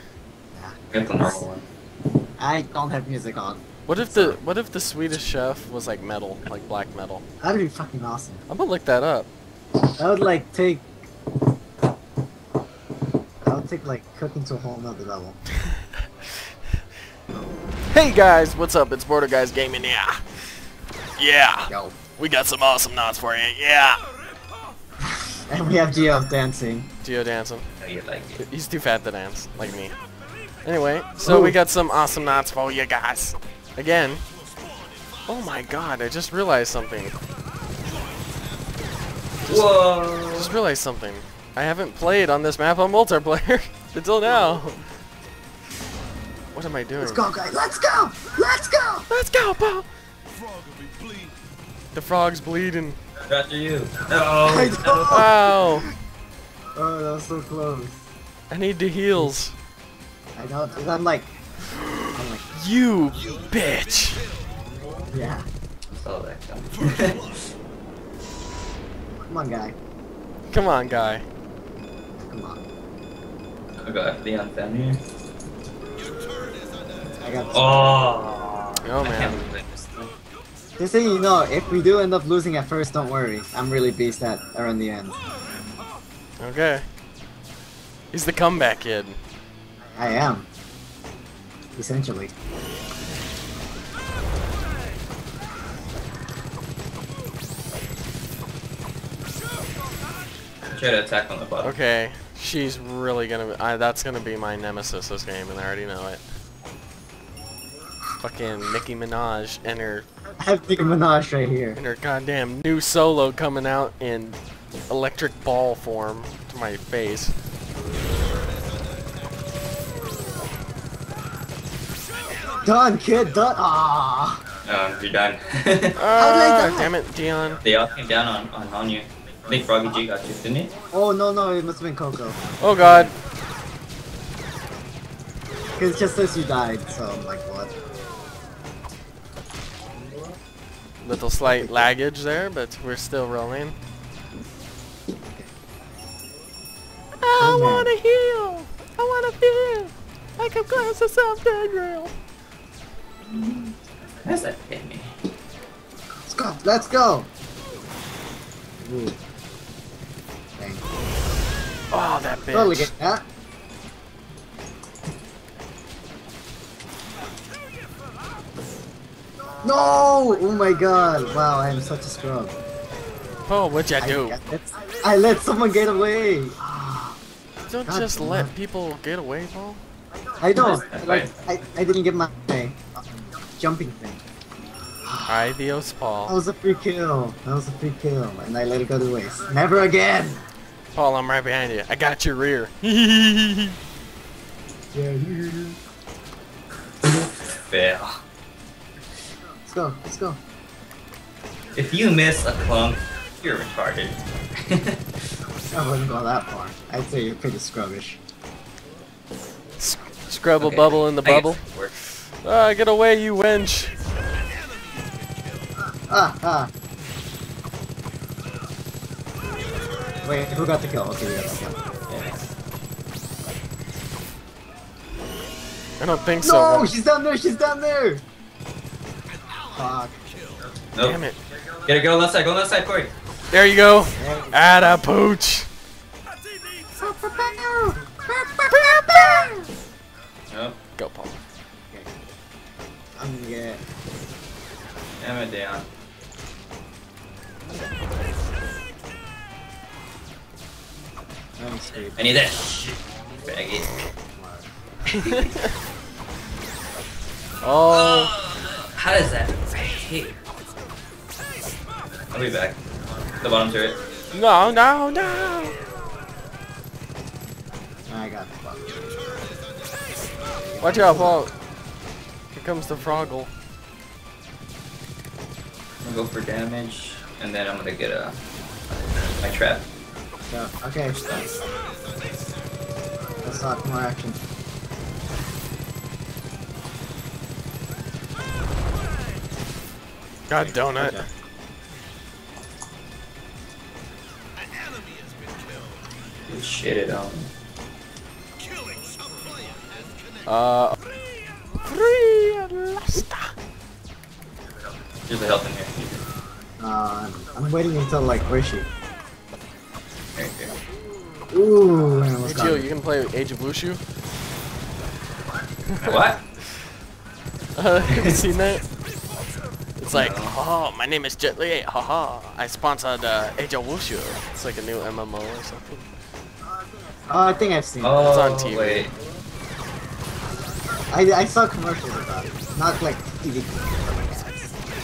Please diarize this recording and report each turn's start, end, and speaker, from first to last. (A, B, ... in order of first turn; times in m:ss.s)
0:00.5-0:01.4 A
0:00.9-0:01.6 B
0:02.4-0:04.4 A
0:03.9-0:07.2 C
0:07.4-0:08.4 A
0:08.5-0:09.3 C
0:10.0-0:10.9 A
0:13.4-0:15.4 A
0:17.9-0:20.2 C
0:21.2-0:24.0 C
0:21.7-0:22.0 A
0:25.5-0:26.9 A
0:27.0-0:27.6 C
0:27.8-0:28.4 B
0:28.4-0:29.9 C
0:30.6-0:34.2 C
0:31.2-0:31.5 A
0:35.3-0:37.2 C
0:39.4-0:40.5 B
0:40.3-0:44.8 C
0:46.5-0:47.2 C
0:47.0-0:49.1 A
0:49.1-0:49.9 C
0:51.9-0:53.0 C
0:53.3-0:55.3 B
0:54.4-0:55.8 A
0:55.1-0:55.8 C
0:56.8-0:58.0 A
0:58.5-0:59.5 C
1:00.4-1:01.4 A
1:01.7-1:04.2 C
1:02.1-1:02.4 A
1:05.1-1:05.5 A
1:05.9-1:07.4 B
1:09.1-1:09.8 A
1:10.5-1:11.2 C
1:12.2-1:12.6 A
1:13.8-1:15.0 B
1:17.2-1:18.0 A
1:17.5-1:19.6 B
1:18.8-1:19.4 C
1:20.8-1:25.2 A
1:26.4-1:26.8 C
1:28.1-1:29.2 C
1:29.8-1:30.5 A
1:31.7-1:32.3 A
1:40.7-1:41.7 B
1:41.6-1:46.2 C
1:48.2-1:50.0 C
1:50.4-1:51.8 A
1:51.8-1:54.4 C
1:54.9-1:57.3 C
2:02.4-2:04.4 A
2:04.6-2:06.0 B
2:06.0-2:07.6 C
2:06.2-2:06.9 A
2:07.6-2:10.7 B
2:10.9-2:13.1 A
2:12.6-2:13.2 C
2:15.8-2:17.7 A
2:21.0-2:23.8 C
2:21.4-2:21.9 A
2:27.2-2:32.1 C
2:27.4-2:27.9 A
2:33.3-2:35.1 B
2:36.3-2:37.3 A
2:38.8-2:39.2 A
2:40.6-2:40.8 A
2:41.9-2:42.9 C
2:42.5-2:43.2 A
2:49.6-2:52.6 A
2:53.5-2:54.4 C
2:54.0-2:57.2 A
2:57.7-2:59.8 C
2:57.8-2:58.5 A
3:00.4-3:04.2 A
3:00.6-3:01.5 B
3:05.0-3:05.5 A
3:05.3-3:06.4 C
3:06.3-3:10.4 A
3:10.9-3:13.8 C
3:14.9-3:15.8 A
3:17.0-3:18.2 B
3:19.7-3:20.4 A
3:21.7-3:25.0 B
3:25.7-3:28.2 A
3:29.8-3:33.9 C
3:30.6-3:31.9 B
3:36.0-3:36.7 A
3:40.2-3:41.8 A
3:42.1-3:42.4 B
3:46.0-3:46.9 C
3:46.4-3:48.2 A
3:49.7-3:50.2 A
3:50.9-3:51.2 B
3:51.0-3:51.4 C
3:51.8-3:53.1 B
3:53.5-3:55.7 C
3:54.2-3:54.8 A
3:56.9-3:59.0 A
3:58.7-3:59.5 C
4:00.5-4:00.8 B
4:01.0-4:01.4 C
4:01.9-4:02.1 A
4:03.2-4:03.8 A
4:05.2-4:05.9 B
4:11.6-4:12.2 A
4:12.2-4:14.0 B
4:14.3-4:14.7 A
4:15.1-4:15.6 C
4:17.6-4:18.3 C
4:17.9-4:20.4 B
4:22.3-4:22.8 B
4:23.4-4:24.0 B
4:24.3-4:25.8 C
4:28.1-4:29.1 A
4:30.5-4:31.4 A
4:30.8-4:31.5 C
4:32.5-4:33.5 C
4:36.0-4:38.4 B
4:39.3-4:39.8 B
4:40.5-4:41.2 A
4:41.1-4:41.6 B
4:43.4-4:44.4 A
4:50.5-4:51.2 C
4:50.6-4:51.3 A
4:56.5-4:57.5 B
5:00.5-5:01.0 C
5:01.8-5:03.5 C
5:05.3-5:06.2 B
5:06.8-5:08.9 A
5:10.4-5:10.8 B
5:11.5-5:12.9 A
5:12.4-5:14.0 C
5:16.0-5:16.4 B
5:17.8-5:18.8 C
5:18.1-5:18.4 B
5:20.0-5:26.0 C
5:20.1-5:20.5 B
5:27.2-5:28.3 A
5:28.0-5:29.1 B
5:28.2-5:29.1 C
5:31.1-5:34.7 A